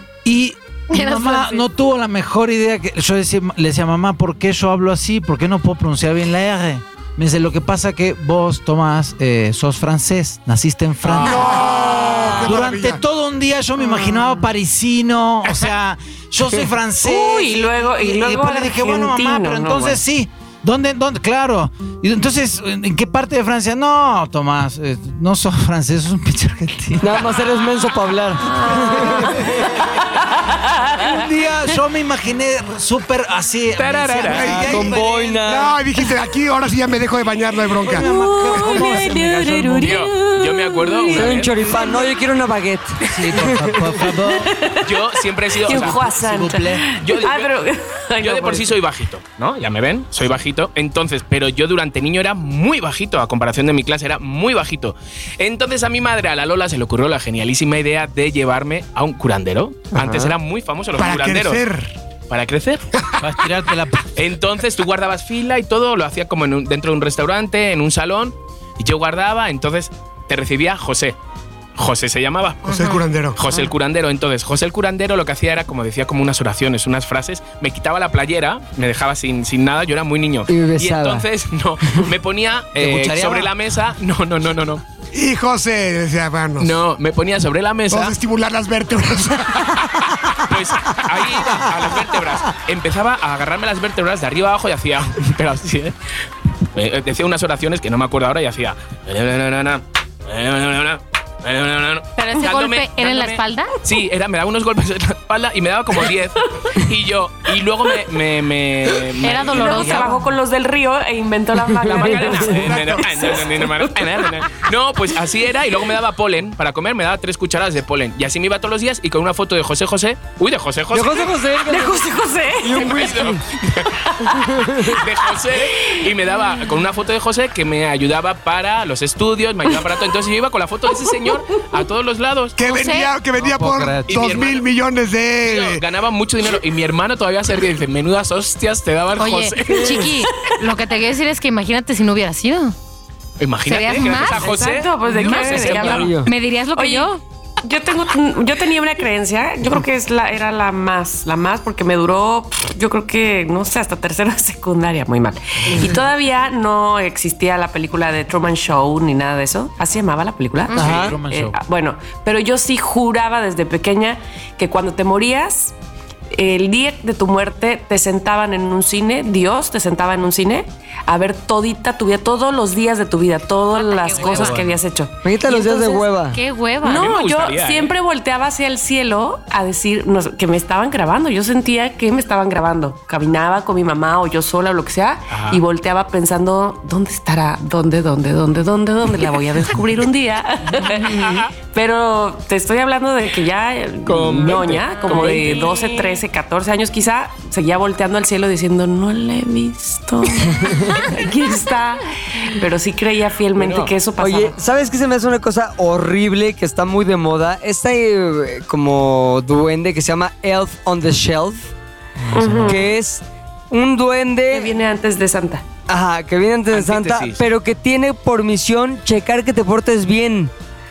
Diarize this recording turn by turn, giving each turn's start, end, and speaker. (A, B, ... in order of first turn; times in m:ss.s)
0:00.2-0:27.3 A
0:00.9-0:01.6 B
0:11.1-0:13.0 C
0:13.8-0:14.3 D
0:17.0-0:20.0 D
0:27.0-0:29.5 E
0:28.4-0:29.5 D
0:28.7-0:29.8 A
0:30.6-0:31.1 D
0:30.9-0:35.4 A
0:33.8-0:34.6 F
0:34.2-0:38.7 C
0:34.5-0:35.8 E
0:37.8-0:40.0 A
0:38.0-0:42.2 D
0:39.8-0:41.5 F
0:41.1-0:43.8 E
0:43.1-0:44.6 A
0:44.0-0:45.0 D
0:44.8-0:46.1 F
0:45.6-0:48.8 D
0:45.7-0:46.8 A
0:47.0-0:47.5 F
0:48.2-1:01.6 F
0:59.9-1:00.3 E
1:01.0-1:01.9 C
1:02.3-1:02.8 F
1:03.2-1:04.0 A
1:04.1-1:11.1 F
1:11.8-1:24.8 F
1:12.6-1:13.4 C
1:20.5-1:21.2 E
1:22.8-1:23.5 A
1:25.1-1:26.8 C
1:26.6-1:28.2 F
1:27.9-1:30.4 C
1:30.4-1:35.9 F
1:36.7-1:50.0 F
1:42.2-1:43.7 B
1:49.2-1:50.1 B
1:49.4-1:54.3 D
1:49.7-1:50.2 A
1:51.8-2:01.3 F
1:52.0-1:52.5 E
1:52.6-1:53.3 C
2:00.9-2:03.4 E
2:01.6-2:02.9 D
2:02.7-2:12.6 F
2:04.2-2:05.0 E
2:05.8-2:06.1 D
2:12.6-2:15.8 C
2:12.6-2:13.1 B
2:13.4-2:14.3 A
2:14.1-2:14.6 F
2:15.4-2:20.1 F
2:19.2-2:22.7 B
2:19.7-2:20.1 E
2:23.4-2:26.1 F
2:23.6-2:24.5 B
2:24.1-2:26.2 D
2:25.2-2:27.2 B
2:25.8-2:26.3 E
2:26.7-2:27.1 D
2:27.6-2:45.7 D
2:40.8-2:41.2 E
2:40.8-2:41.6 A
2:46.3-2:55.2 D
2:53.7-2:54.6 B
2:55.2-2:56.4 E
2:55.5-2:57.1 B
2:56.8-3:24.6 D
2:56.8-2:57.9 F
3:05.3-3:05.6 F
3:10.8-3:11.5 F
3:14.0-3:15.8 F
3:14.9-3:16.2 B
3:20.6-3:21.0 E
3:23.6-3:23.9 F
3:24.2-3:31.7 E
3:32.2-3:32.8 A
3:32.3-3:32.8 D
3:32.6-3:34.7 E
3:34.5-3:35.6 D
3:35.9-3:40.5 E
3:36.7-3:37.4 F